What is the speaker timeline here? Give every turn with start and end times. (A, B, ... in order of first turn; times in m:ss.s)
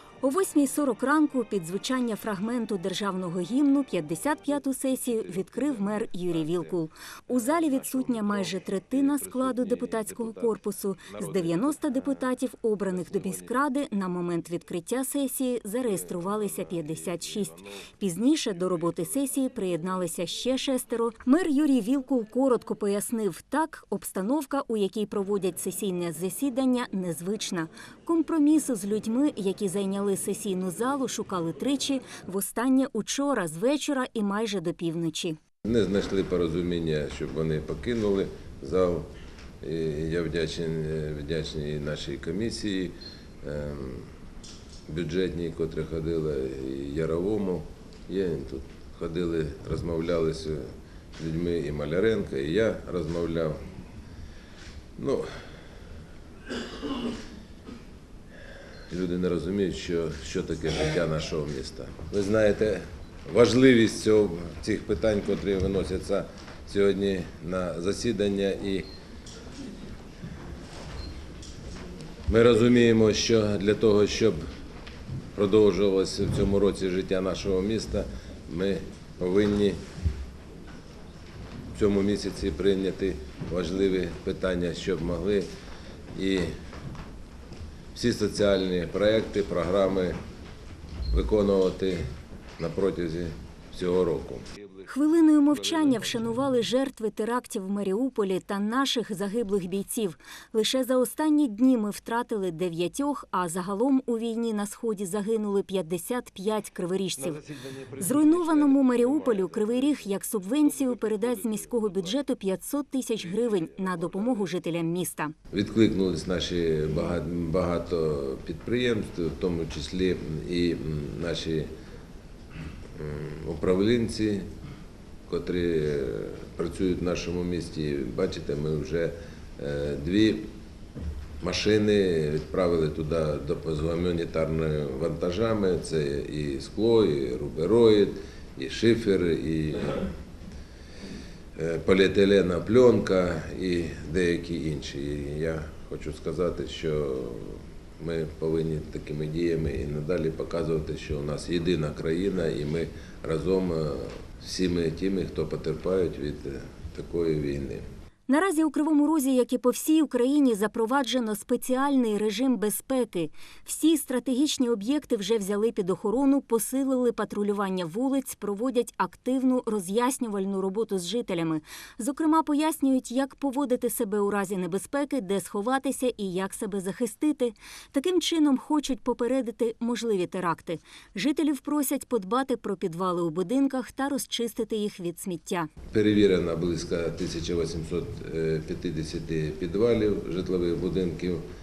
0:00.2-0:35.4 A
0:04.9-0:06.8 B
0:07.3-0:12.3 B
0:12.9-0:13.6 B
0:15.8-0:17.8 B
0:35.6-0:39.1 B
0:39.6-0:44.1 B
0:44.9-0:53.6 B
0:55.0-0:55.3 B
0:58.9-1:08.9 B
1:12.3-1:14.4 B
1:15.4-1:19.8 B
1:21.8-1:25.5 B
1:26.2-1:26.5 B
1:27.9-1:30.2 B
1:31.1-1:32.0 B
1:32.6-1:34.5 B
1:34.9-1:47.4 A
1:35.6-1:36.0 B
1:47.2-1:52.2 B
1:48.0-1:55.3 A
1:53.2-1:54.5 B
1:55.5-2:01.7 B
2:03.0-2:04.5 B
2:05.3-2:10.5 B
2:11.4-2:20.1 B
2:21.6-2:37.8 B
2:38.3-3:05.7 A
3:05.9-3:11.4 B